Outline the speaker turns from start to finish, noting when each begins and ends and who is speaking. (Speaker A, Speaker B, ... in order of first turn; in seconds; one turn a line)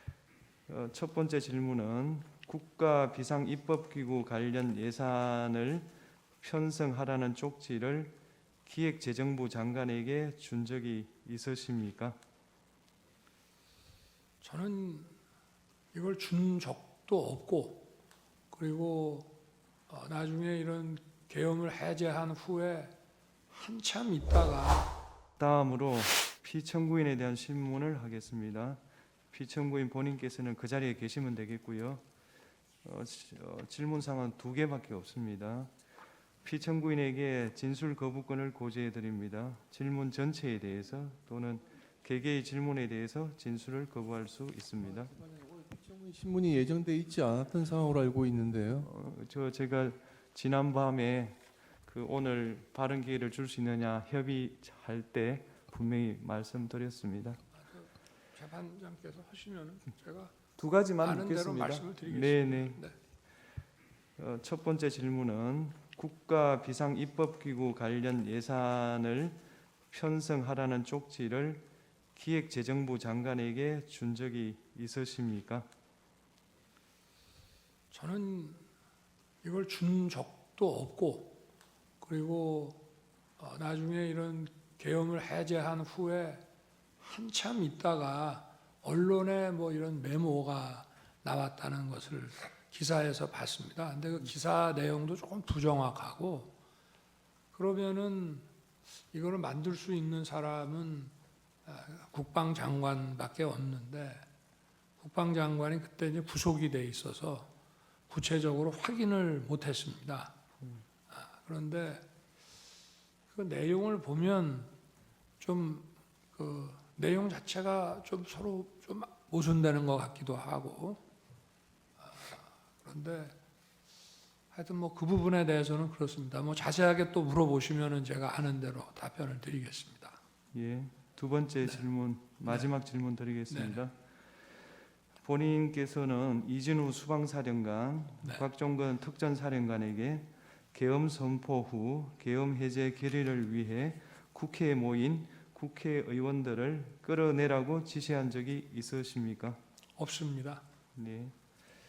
Speaker A: 0.7-5.9
Speaker A: 6.4-12.2
Speaker B: 14.4-15.2
Speaker B: 15.9-17.9
Speaker B: 18.5-19.3
Speaker B: 19.9-22.9
Speaker B: 23.5-24.9
Speaker A: 25.4-28.8
Speaker A: 29.3-32.0
Speaker A: 32.8-35.7
Speaker A: 36.4-45.1
Speaker C: 44.9-48.9
Speaker A: 48.8-57.4
Speaker B: 57.6-60.3
Speaker A: 60.6-62.9
Speaker B: 61.0-63.0
Speaker A: 64.2-69.4
Speaker A: 69.9-75.7
Speaker B: 77.9-78.7
Speaker B: 79.4-81.4
Speaker B: 82.0-82.8
Speaker B: 83.4-86.4
Speaker B: 87.0-96.5
Speaker B: 97.5-98.5
Speaker B: 99.1-101.1
Speaker B: 101.7-104.3
Speaker B: 105.0-107.5
Speaker B: 108.1-110.3
Speaker B: 111.1-112.0
Speaker B: 113.3-114.7
Speaker B: 115.4-121.0
Speaker B: 122.0-123.4
Speaker B: 124.5-130.2
Speaker A: 130.5-133.9
Speaker B: 132.4-132.7
Speaker B: 133.5-133.8
Speaker A: 135.2-149.6
Speaker B: 150.0-150.6
Speaker A: 150.9-151.3